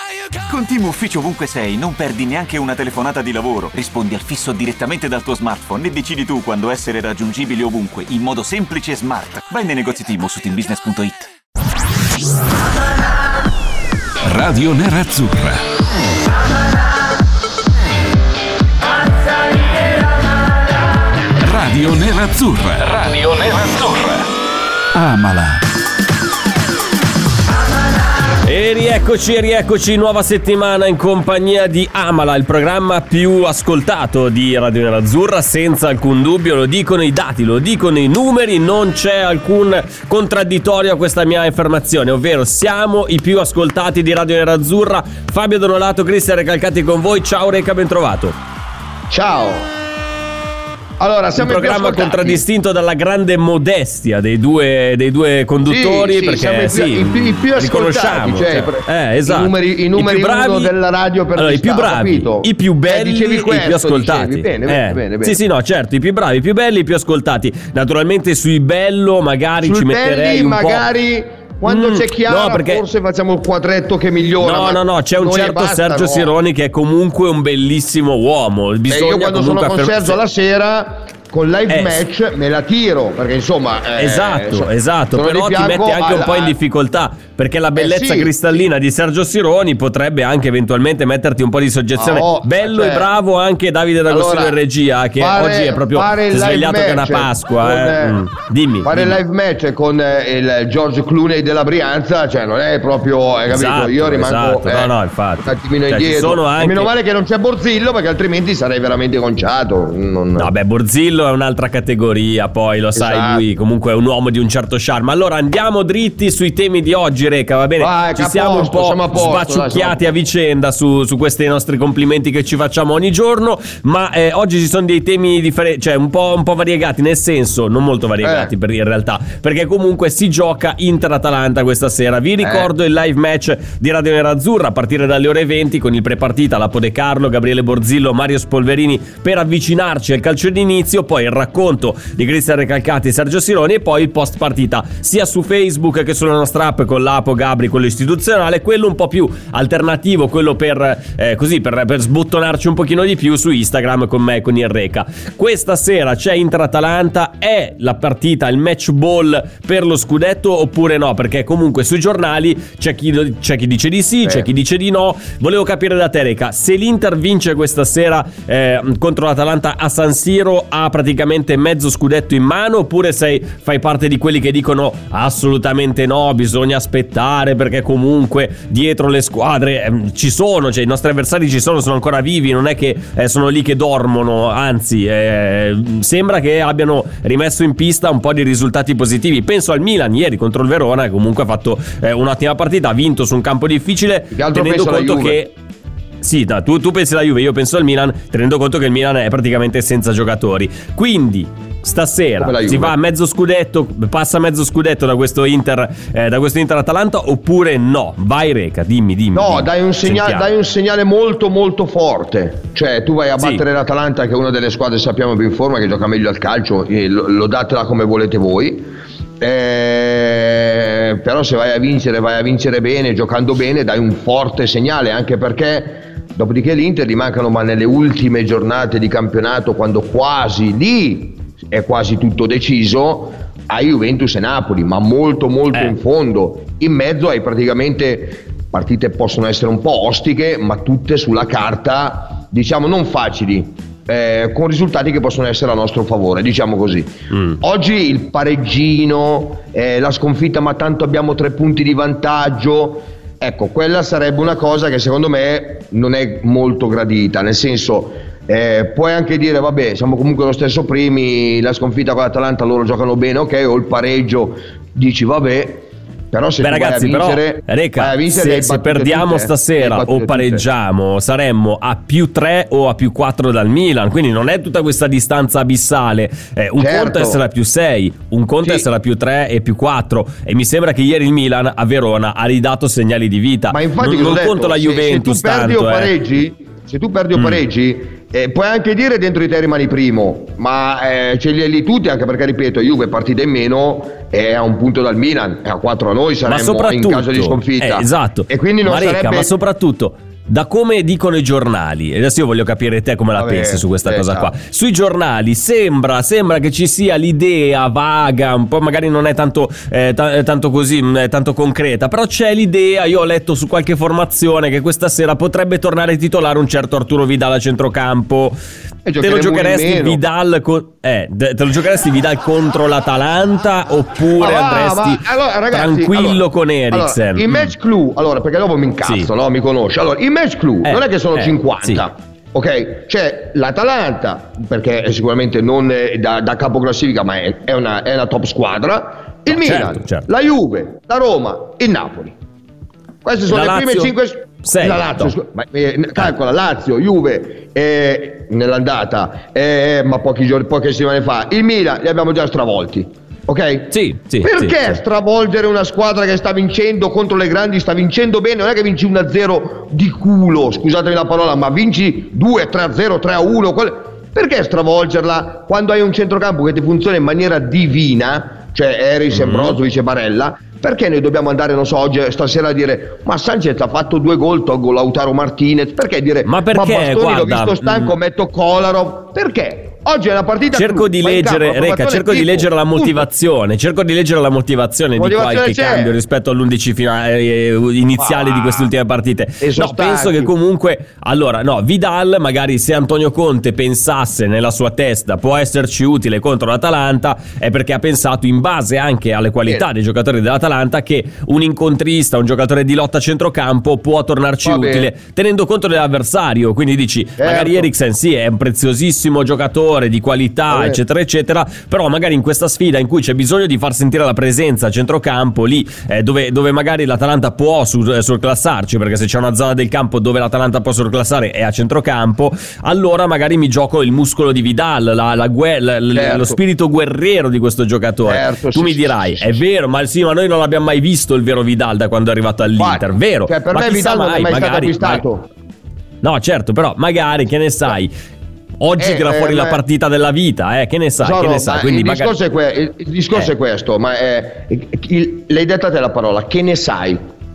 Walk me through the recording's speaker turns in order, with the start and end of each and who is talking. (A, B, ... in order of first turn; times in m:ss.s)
0:00.5-0:11.3 A
0:14.2-0:15.6 B
0:21.4-0:24.2 B
0:24.9-0:25.6 B
0:28.4-0:48.4 C
0:49.1-0:49.7 D
0:51.0-0:52.4 D
0:51.4-1:00.7 C
0:55.7-1:05.4 D
1:01.4-1:10.9 C
1:09.6-1:16.3 D
1:11.7-1:12.8 C
1:14.4-1:20.2 C
1:18.9-1:26.6 D
1:21.7-1:22.0 C
1:24.0-1:39.2 C
1:27.8-1:28.7 D
1:32.0-1:33.1 D
1:34.1-1:34.6 D
1:35.2-1:38.2 D
1:38.8-1:50.5 D
1:43.5-1:46.9 C
1:50.4-3:15.5 C
1:53.0-1:53.4 D
1:57.8-2:00.1 D
2:08.2-2:08.5 D
2:12.4-2:12.7 D
3:14.3-3:15.4 D
3:16.2-3:30.5 C
3:22.4-3:23.0 D
3:29.3-4:30.7 D
3:33.4-3:33.6 C
4:07.3-4:07.6 C
4:26.6-4:46.1 C
4:36.8-4:37.4 D
4:43.7-4:59.5 D
4:56.5-5:18.6 C
5:03.4-5:04.5 D
5:19.0-5:20.2 D
5:19.2-5:25.2 C
5:24.4-5:42.4 D
5:25.7-5:27.7 C
5:29.0-5:29.3 C
5:30.8-5:32.0 C
5:39.5-5:40.3 C
5:43.2-6:23.3 D
5:43.5-5:45.3 C
5:53.9-5:55.0 C
6:09.3-6:09.8 C
6:16.5-6:18.1 C
6:20.7-7:15.2 C
6:25.2-6:26.1 D
6:28.2-6:28.9 D
6:29.6-6:30.5 D
6:44.6-6:45.1 D
6:47.4-6:47.9 D
6:50.7-6:51.0 D
7:06.1-7:06.6 D
7:08.3-7:09.6 D
7:12.8-7:15.5 D
7:16.2-7:18.1 C
7:18.8-7:22.4 C
7:19.0-7:19.8 D
7:21.2-7:27.2 D